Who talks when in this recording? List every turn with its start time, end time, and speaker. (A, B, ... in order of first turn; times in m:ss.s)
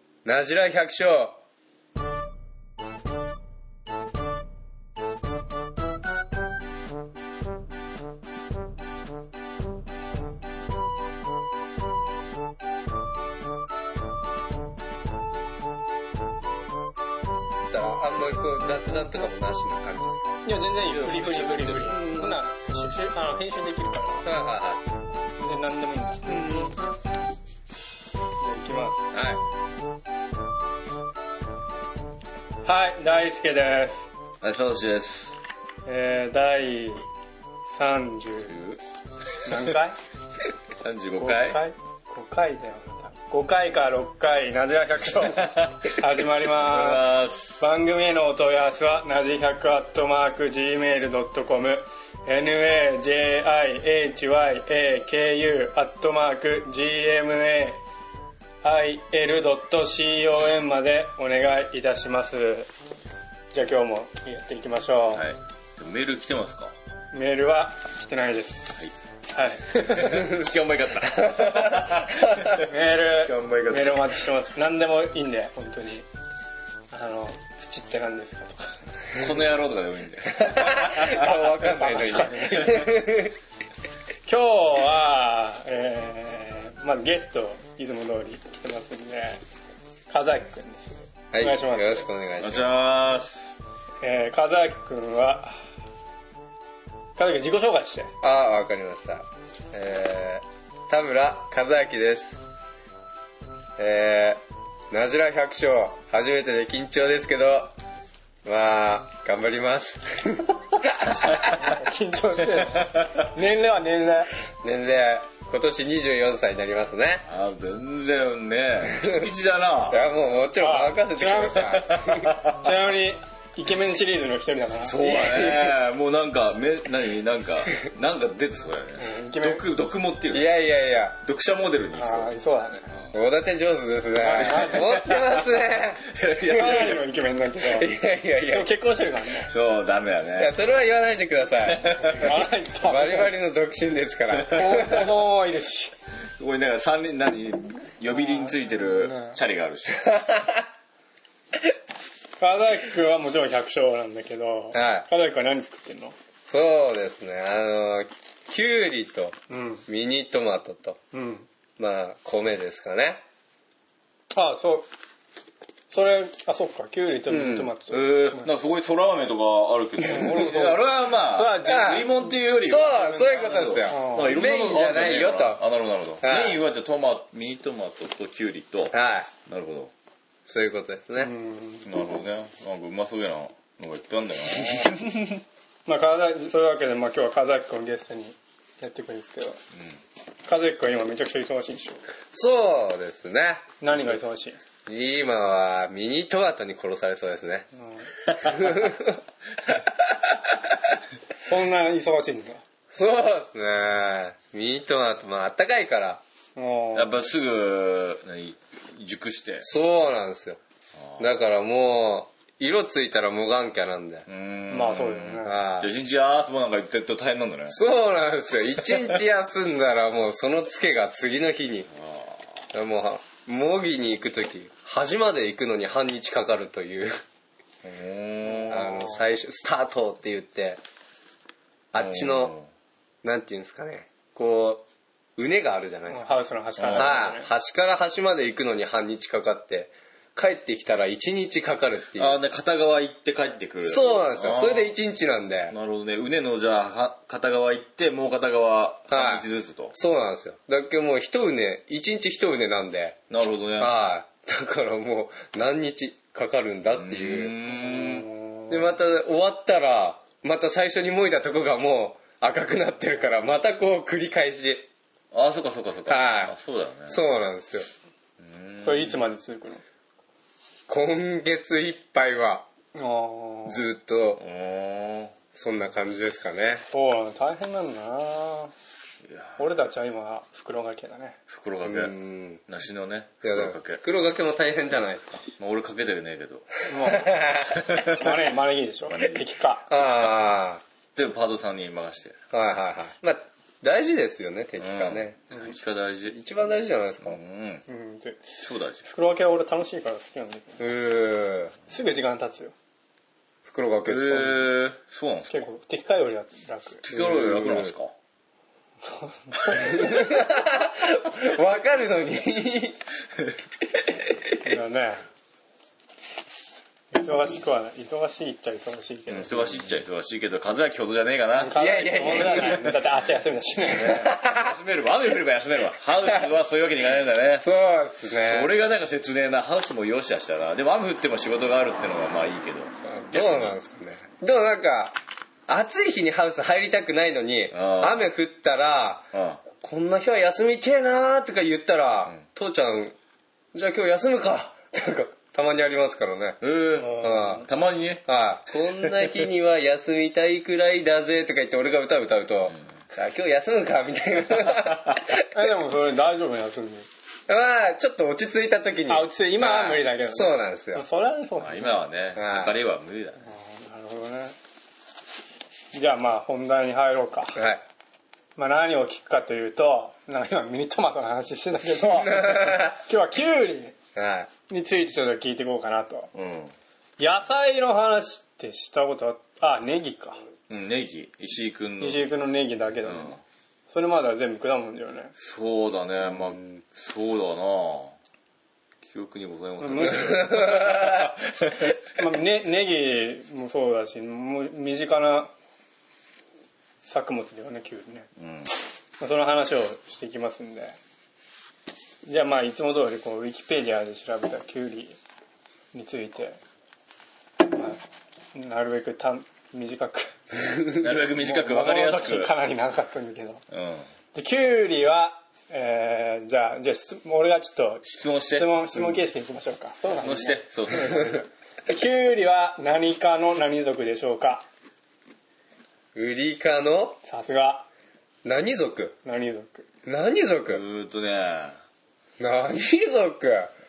0:00.2-0:01.4 A
0:17.7-0:20.4 A
0:20.4-0:24.3 B
0:20.9-0:22.3 C
0:21.9-0:22.3 A
0:24.2-0:24.8 A
0:25.4-0:26.5 B
0:26.3-0:26.7 A
0:28.4-0:29.0 B
0:29.1-0:29.4 A
0:32.6-0:34.1 B
0:34.4-0:35.4 C
0:35.8-0:37.0 B
0:37.7-0:38.6 B
0:38.5-0:38.8 C
0:39.4-0:40.0 B
0:40.8-0:41.6 C
0:41.2-0:57.8 B
0:45.2-0:46.0 C
0:46.5-0:47.6 C
0:58.6-1:02.7 B
1:03.5-1:05.2 B
1:05.1-1:06.7 C
1:07.1-1:08.8 B
1:09.3-1:10.3 B
1:09.7-1:14.3 C
1:11.1-1:12.4 A
1:12.5-1:16.0 B
1:16.9-1:18.8 B
1:19.1-1:21.2 C
1:20.3-1:23.3 A
1:21.1-1:23.1 B
1:24.2-1:29.4 B
1:30.1-1:32.1 B
1:31.3-1:32.7 A
1:32.4-1:33.4 C
1:34.0-1:35.6 B
1:37.2-1:38.1 B
1:38.2-1:42.4 A
1:43.8-1:44.4 A
1:44.9-1:47.7 A
1:48.4-1:51.7 A
1:51.5-1:54.3 B
1:54.6-1:57.2 A
1:57.3-2:00.0 C
1:58.8-1:59.3 A
1:59.9-2:02.4 A
2:00.6-2:01.8 B
2:01.6-2:02.7 C
2:02.5-2:05.1 B
2:04.8-2:10.5 C
2:05.0-2:05.8 A
2:09.0-2:09.6 B
2:10.3-2:11.2 A
2:11.2-2:12.3 C
2:12.0-2:12.9 B
2:13.1-2:16.8 A
2:14.2-2:17.0 C
2:14.3-2:14.8 B
2:16.5-2:17.9 B
2:17.6-2:18.7 A
2:18.5-2:19.5 B
2:19.5-2:20.5 C
2:20.4-2:25.1 A
2:21.6-2:22.3 C
2:22.1-2:23.3 B
2:24.5-2:25.9 B
2:26.4-2:30.2 C
2:28.2-2:29.4 B
2:29.9-2:30.6 A
2:32.4-2:36.1 B
2:34.7-2:35.1 A
2:36.5-2:41.0 A
2:39.5-2:39.8 B
2:41.1-2:41.5 B
2:41.8-2:43.2 A
2:44.3-2:44.9 B
2:45.9-2:48.5 B
2:47.3-2:47.7 A
2:47.9-2:58.9 C
2:50.1-2:52.1 B
2:51.6-2:55.6 A
2:53.9-2:54.4 B
2:56.2-2:56.6 A
2:58.9-2:59.3 A
2:59.5-2:59.9 C
3:00.5-3:01.3 A
3:01.2-3:01.9 B
3:01.8-3:05.3 C
3:05.8-3:09.6 B
3:09.7-3:10.0 C
3:10.5-3:12.0 B
3:12.3-3:14.1 A
3:13.8-3:14.6 B
3:14.8-3:17.7 A
3:17.8-3:18.1 B
3:18.4-3:19.2 A
3:19.9-3:20.5 A
3:21.4-3:22.6 B
3:22.9-3:26.2 A
3:26.6-3:27.1 B
3:26.9-3:29.6 C
3:29.6-3:30.6 A
3:31.0-3:31.2 C
3:31.2-3:34.3 A
3:34.3-3:37.8 C
3:34.7-3:35.6 B
3:35.4-3:35.9 A
3:37.7-3:41.9 A
3:38.9-3:39.2 C
3:42.0-3:42.4 C
3:42.7-3:47.1 A
3:47.8-3:49.1 C
3:48.7-3:50.8 A
3:51.9-3:52.6 A
3:52.0-3:52.7 C
3:53.2-3:54.8 A
3:55.4-3:56.3 A
3:56.1-3:57.5 B
3:56.8-3:57.2 C
3:56.9-4:02.4 A
4:02.2-4:04.9 C
4:03.8-4:05.7 A
4:05.7-4:09.9 C
4:09.1-4:13.2 A
4:13.3-4:14.0 C
4:13.8-4:17.5 A
4:17.0-4:18.3 C
4:17.7-4:18.9 B
4:18.7-4:24.9 A
4:25.3-4:27.2 C
4:26.1-4:26.5 A
4:27.1-4:27.9 A
4:28.4-4:29.2 C
4:28.8-4:29.8 B
4:30.9-4:32.7 A
4:32.9-4:33.8 B
4:33.7-4:34.4 A
4:34.4-4:35.3 C
4:35.5-4:36.8 A
4:36.9-4:38.7 B
4:39.2-4:39.6 C
4:39.6-4:41.4 B
4:41.5-4:44.0 C
4:41.8-4:42.6 A
4:43.4-4:45.4 A
4:45.6-4:46.7 C
4:46.9-4:49.9 B
4:47.0-4:48.0 A
4:47.8-4:48.3 C
4:49.1-4:49.4 C
4:49.9-4:50.8 A
4:49.9-4:50.3 C
4:51.1-4:52.4 C
4:52.5-4:55.4 A
4:54.8-4:56.4 C
4:56.3-4:57.4 A
4:57.2-4:57.9 C
4:57.9-4:58.5 B
4:58.6-4:59.1 C
4:59.1-5:00.8 B
5:00.8-5:01.7 A
5:01.9-5:02.7 B
5:03.6-5:04.6 A
5:04.0-5:05.6 C
5:05.5-5:07.0 B
5:07.0-5:08.1 C
5:07.1-5:07.9 A
5:09.1-5:10.1 B
5:09.7-5:10.0 C
5:09.7-5:13.0 A
5:14.1-5:14.4 A
5:14.6-5:15.2 B
5:17.1-5:19.7 B
5:19.3-5:22.9 C
5:21.6-5:24.3 B
5:21.7-5:22.9 A
5:23.9-5:27.7 C
5:24.1-5:24.7 A
5:27.6-5:28.7 A
5:28.3-5:33.8 C
5:33.0-5:35.2 A
5:35.7-5:39.3 A
5:37.7-5:38.2 C
5:39.3-5:39.6 C
5:39.8-5:43.1 A
5:43.7-5:47.6 A
5:46.6-5:49.4 C
5:47.0-5:47.6 B
5:48.2-5:55.4 A
5:55.4-5:57.1 B
5:57.5-6:01.0 A
5:59.1-6:02.0 B
6:01.6-6:03.4 C
6:02.4-6:02.7 A
6:03.5-6:04.5 B
6:05.9-6:07.6 B
6:07.6-6:07.8 A
6:08.6-6:14.0 B
6:12.1-6:13.0 A
6:14.1-6:14.5 A
6:14.7-6:16.3 B
6:16.3-6:16.7 C
6:17.2-6:20.4 B
6:20.7-6:22.3 C
6:22.0-6:23.4 B
6:23.0-6:23.4 C
6:23.9-6:25.3 B
6:25.4-6:28.1 C
6:29.0-6:31.9 C
6:29.8-6:30.5 B
6:30.2-6:31.3 A
6:31.9-6:35.5 B
6:37.0-6:38.3 B
6:38.4-6:38.7 C
6:39.2-6:41.0 B
6:42.2-6:45.2 B
6:45.9-6:46.6 B
6:47.6-6:48.0 B
6:48.5-6:50.4 B
6:50.8-6:51.1 A
6:51.0-6:52.5 C
6:51.3-6:53.6 B
6:53.7-6:54.1 C
6:54.3-7:04.6 B
6:58.0-6:58.8 C
7:00.2-7:01.4 C
7:06.1-7:07.2 A
7:07.2-7:07.9 B
7:08.4-7:09.2 A
7:09.2-7:09.8 B
7:10.0-7:10.8 A
7:10.7-7:11.8 C
7:12.4-7:13.7 A